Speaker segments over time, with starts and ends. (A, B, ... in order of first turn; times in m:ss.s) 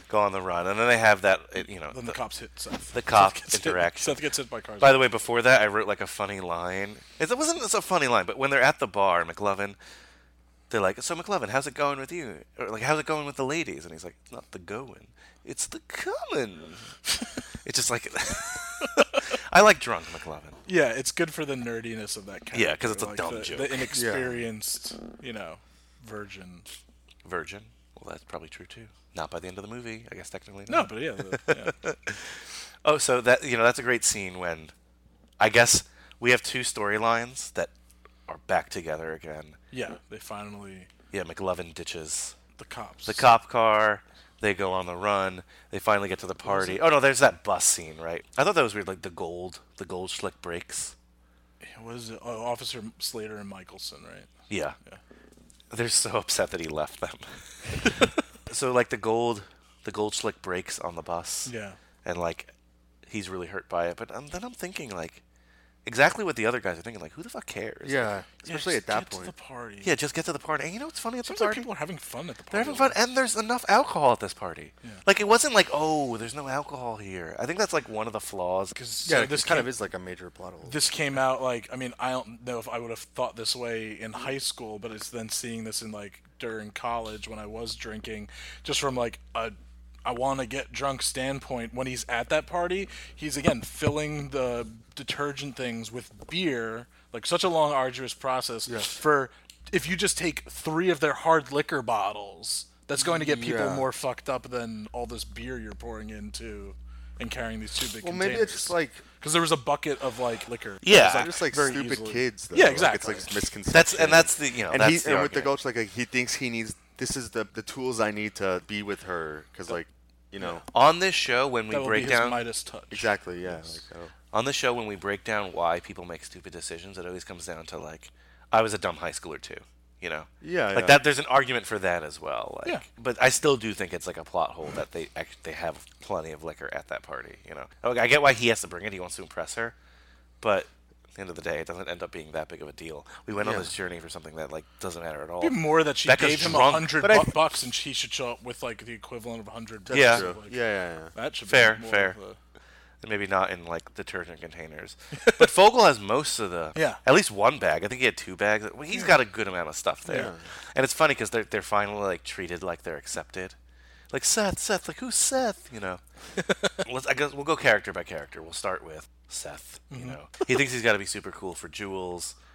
0:00.1-0:02.2 A
0:01.9-0:05.1 B
0:02.9-0:04.2 A
0:04.8-0:09.8 A
0:10.7-0:16.9 A
0:17.6-0:20.6 A
0:20.7-0:26.7 B
0:22.5-0:24.0 A
0:23.9-0:24.5 C
0:27.2-0:34.7 A
0:30.7-0:31.8 B
0:35.4-0:37.7 A
0:38.3-0:39.6 A
0:39.7-0:40.9 B
0:41.1-0:42.4 A
0:42.6-0:43.3 B
0:43.1-0:51.0 A
0:46.5-0:46.8 B
0:51.6-0:54.3 B
0:54.5-0:54.8 A
0:55.7-0:57.3 A
0:58.5-1:01.5 A
1:01.5-1:01.8 B
1:02.0-1:02.5 A
1:03.1-1:05.2 A
1:05.8-1:08.2 A
1:07.8-1:09.3 C
1:08.4-1:10.0 B
1:09.8-1:11.7 A
1:11.2-1:13.0 B
1:12.5-1:18.8 A
1:18.7-1:19.7 B
1:19.0-1:20.9 C
1:20.7-1:53.4 B
1:38.7-1:39.0 C
1:43.0-1:43.9 C
1:48.0-1:49.0 C
1:50.8-1:51.5 A
1:50.9-2:00.6 C
1:53.7-1:55.6 A
2:00.7-2:02.4 A
2:01.7-2:03.8 B
2:02.9-2:04.1 C
2:04.3-2:19.8 A
2:10.4-2:11.0 C
2:20.4-2:27.2 A
2:23.4-2:23.7 C
2:25.4-2:30.6 B
2:27.0-2:27.4 C
2:29.9-2:31.1 C
2:29.9-2:30.3 A
2:31.1-2:32.4 B
2:31.5-2:32.2 A
2:33.0-2:43.6 A
2:35.1-2:35.5 B
2:36.8-2:37.0 B
2:40.0-2:40.3 B
2:40.1-2:40.4 C
2:44.1-2:46.0 A
2:46.5-2:46.8 B
2:46.8-2:52.4 A
2:49.9-2:50.2 B